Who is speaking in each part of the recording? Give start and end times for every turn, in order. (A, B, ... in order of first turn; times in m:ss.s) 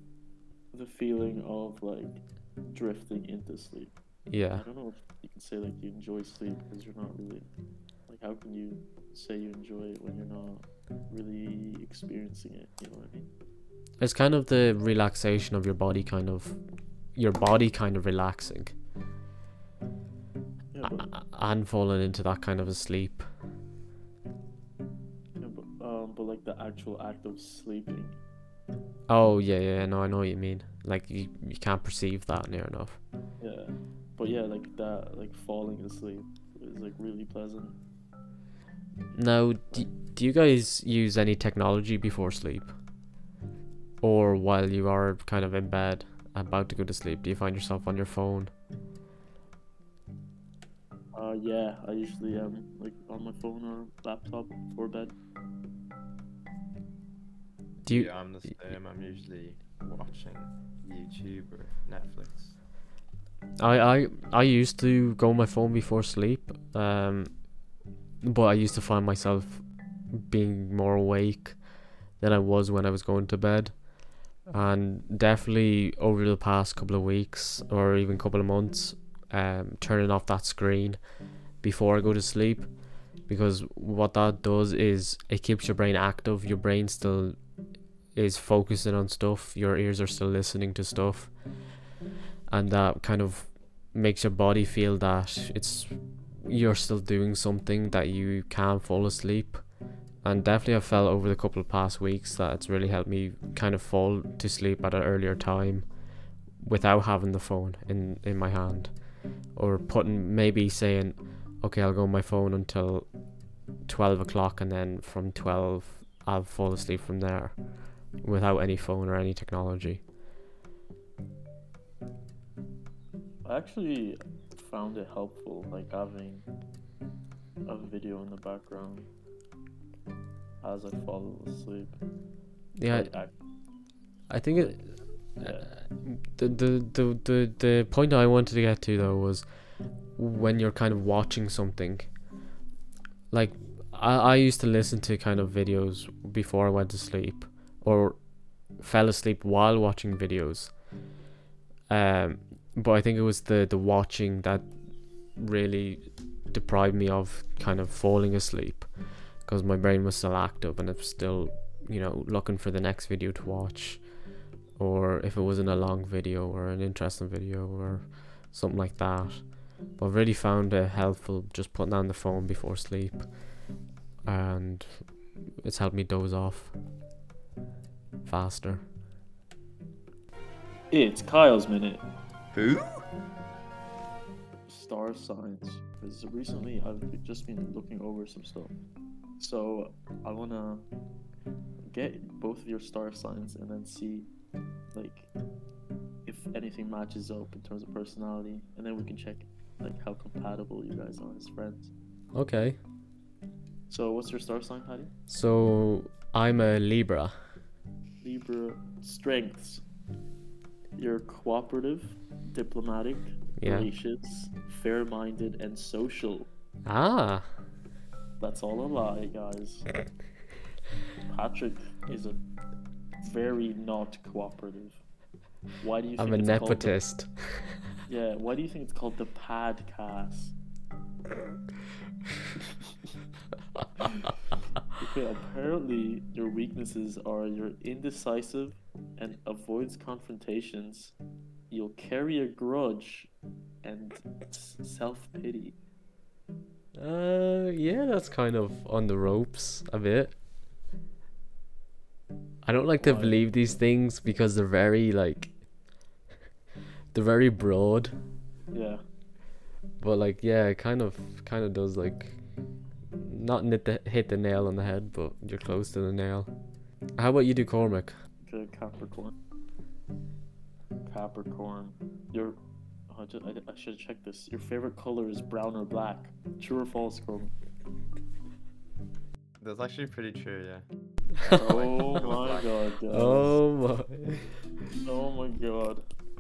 0:00.7-0:07.5 A
0:04.3-0:04.7 B
0:08.1-0:13.3 A
0:14.0-0:16.6 B
0:17.1-0:18.8 B
0:20.7-0:21.1 A
0:20.8-0:23.3 B
0:25.4-0:28.2 A
0:29.1-0:33.0 B
0:33.4-0:37.8 A
0:39.1-0:42.8 B
0:44.0-0:48.5 B
0:51.1-0:55.1 A
0:57.8-0:58.1 B
0:57.9-1:02.6 C
1:03.6-1:07.5 B
1:08.2-1:11.6 B
1:12.2-1:13.9 B
1:14.4-1:21.1 B
1:21.6-1:27.5 B
1:28.1-1:31.6 B
1:32.5-1:39.7 B
1:40.2-1:46.0 B
1:46.6-2:00.0 B
2:03.4-2:06.5 A
2:07.7-2:09.1 A
2:10.6-2:12.0 A
2:12.8-2:13.4 B
2:12.9-2:13.4 A
2:14.3-2:22.2 B
2:14.5-2:15.7 A
2:23.3-2:30.8 B
2:31.9-2:44.1 B
2:44.8-2:53.3 B
2:54.2-2:56.8 B
2:58.2-2:58.8 B
3:00.9-3:02.0 A
3:02.5-3:03.0 C
3:04.7-3:08.7 A
3:09.4-3:10.9 A
3:11.8-3:14.3 A
3:14.9-3:15.3 A
3:16.2-3:21.9 A
3:22.3-3:22.8 B
3:23.9-3:25.1 A
3:25.3-3:27.4 B
3:28.2-3:29.8 A
3:31.0-3:36.5 A
3:33.6-3:33.9 B
3:36.8-3:37.5 B
3:38.4-3:39.9 A
3:41.3-3:42.4 A
3:43.2-3:45.0 A
3:45.8-3:47.0 A
3:46.2-3:47.8 B
3:48.0-3:50.6 A
3:55.0-4:01.2 A
4:01.7-4:03.3 A
4:03.8-4:05.8 A
4:07.0-4:10.4 B
4:12.6-4:15.7 B
4:13.0-4:13.4 A
4:17.1-4:18.2 B
4:18.7-4:19.0 A
4:20.0-4:26.5 B
4:27.2-4:28.2 B
4:28.4-4:29.3 A
4:31.0-4:37.5 A
4:39.6-4:40.9 C
4:41.4-4:42.7 C
4:41.5-4:43.6 A
4:43.1-4:44.4 B
4:44.9-4:46.0 A